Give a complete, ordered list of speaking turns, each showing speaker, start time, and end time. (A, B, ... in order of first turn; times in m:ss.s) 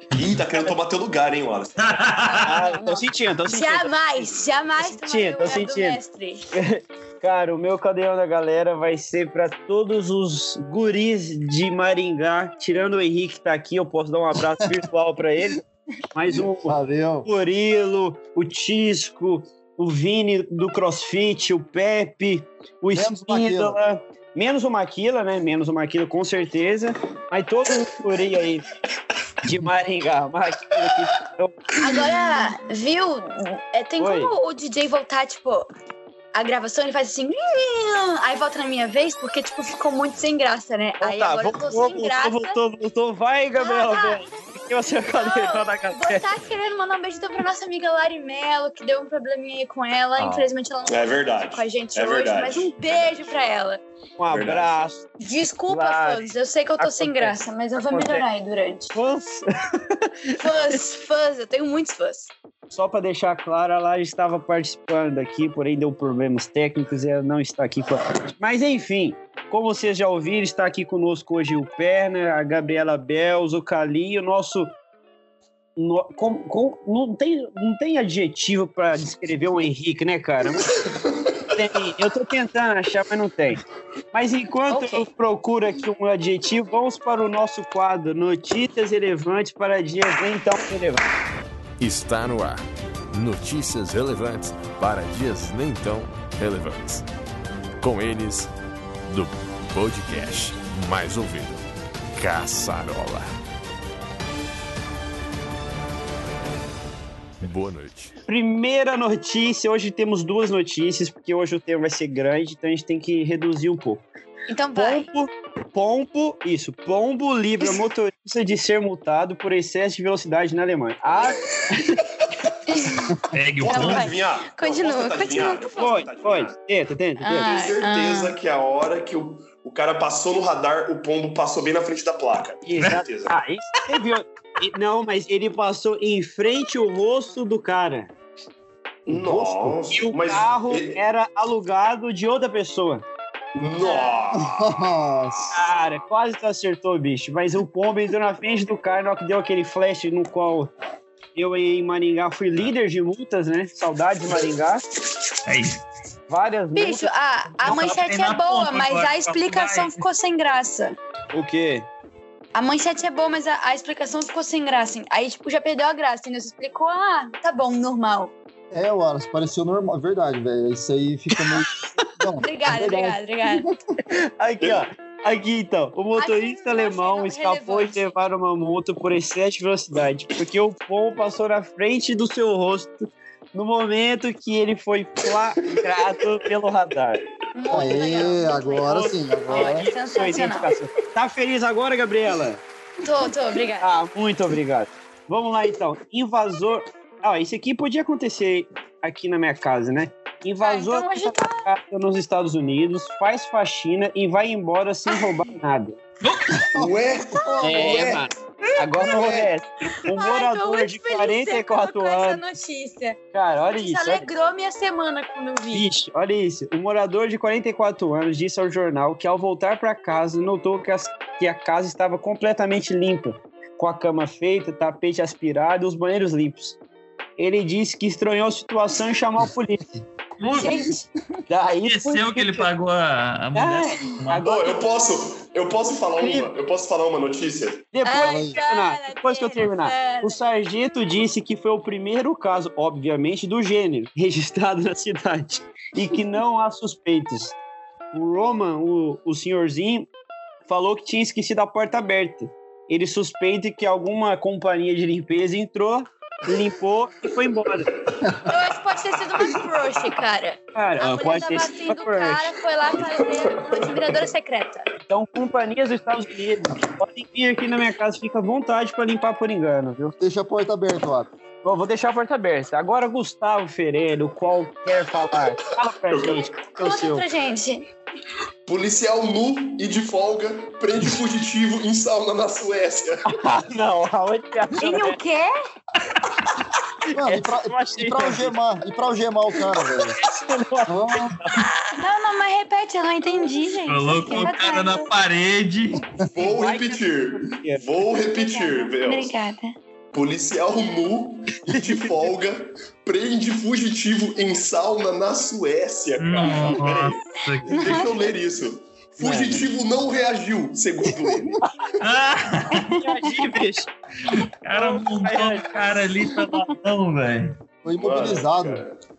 0:00.1-0:02.2 A
0:01.8-0:02.5 B
0:02.3-0:06.4 C
0:02.4-0:06.0 D
0:06.5-0:15.6 D
0:16.1-0:28.7 D
0:16.6-0:17.3 E
0:22.9-0:23.8 E
0:29.4-0:31.7 D
0:31.8-0:35.7 C
0:34.0-0:34.3 D
0:36.3-0:42.6 C
0:41.0-0:46.3 D
0:43.6-0:44.2 C
0:45.1-0:53.8 C
0:50.8-0:52.9 A
0:54.2-0:55.0 D
0:54.3-0:54.9 A
0:55.2-0:58.9 C
0:55.7-0:58.3 D
0:58.9-1:00.8 D
1:00.4-1:02.3 C
1:02.7-1:14.8 D
1:15.8-1:20.7 D
1:21.5-1:31.0 D
1:24.7-1:25.0 C
1:31.8-1:37.0 F
1:37.8-1:38.5 F
1:39.1-1:41.6 F
1:42.2-1:43.3 F
1:47.4-1:48.1 F
1:48.3-1:54.0 D
1:54.5-1:55.1 C
1:54.7-2:02.0 D
2:02.7-2:06.0 C
2:03.3-2:04.1 B
2:03.6-2:06.5 A
2:05.8-2:07.5 D
2:07.2-2:08.3 C
2:07.4-2:13.3 A
2:12.6-2:18.1 D
2:19.0-2:21.0 A
2:19.1-2:19.8 E
2:19.9-2:23.0 D
2:23.6-2:24.7 A
2:23.8-2:24.2 C
2:24.3-2:25.7 E
2:25.5-2:30.7 D
2:31.3-2:34.8 D
2:35.4-2:35.8 B
2:36.3-2:37.1 D
2:36.7-2:41.0 C
2:37.6-2:40.0 B
2:41.3-2:41.9 D
2:42.5-2:48.3 C
2:48.7-2:52.8 E
2:51.4-2:51.6 D
2:52.4-2:53.7 C
2:52.6-2:53.2 D
2:54.0-3:12.6 D
2:56.2-2:58.1 C
3:07.5-3:10.8 C
3:07.7-3:09.9 E
3:13.0-3:13.9 C
3:13.8-3:26.0 D
3:20.6-3:21.7 C
3:26.7-3:28.0 E
3:26.7-3:28.3 A
3:27.4-3:28.1 C
3:27.6-3:32.4 D
3:29.0-3:29.3 C
3:29.0-3:29.5 A
3:30.0-3:35.9 C
3:33.3-3:34.3 D
3:35.7-3:46.8 D
3:47.4-3:50.7 D
3:50.5-3:51.1 C
3:51.5-3:52.7 D
3:51.8-3:54.5 B
3:53.5-3:54.9 D
3:54.4-3:57.9 A
3:56.2-3:56.5 D
3:57.9-4:07.6 D
3:58.0-4:00.4 C
3:58.2-3:58.6 E
4:08.1-4:10.1 D
4:10.7-4:17.9 D
4:18.4-4:24.8 C
4:20.7-4:22.5 D
4:23.0-4:24.2 A
4:25.1-4:30.2 D
4:30.2-4:31.3 E
4:31.6-4:37.2 D
4:36.1-4:36.5 A
4:36.6-4:37.9 C
4:38.6-4:43.2 A
4:43.3-4:45.2 D
4:44.8-4:45.5 C
4:47.0-4:48.6 D
4:47.1-4:50.2 E
4:50.2-4:51.6 D
4:50.9-4:51.4 E
4:51.5-4:55.1 C
4:53.9-4:56.1 B
4:56.3-4:59.3 A
4:56.4-4:57.9 D
4:58.2-4:59.7 C
5:00.1-5:11.6 A
5:01.6-5:02.3 D
5:06.2-5:08.0 B
5:07.7-5:08.1 C
5:09.2-5:09.7 D
5:11.2-5:11.6 E
5:12.0-5:12.9 B
5:12.7-5:13.0 C
5:12.9-5:13.9 D
5:14.2-5:17.5 B
5:14.7-5:15.8 D
5:17.8-5:18.8 E
5:17.9-5:18.9 A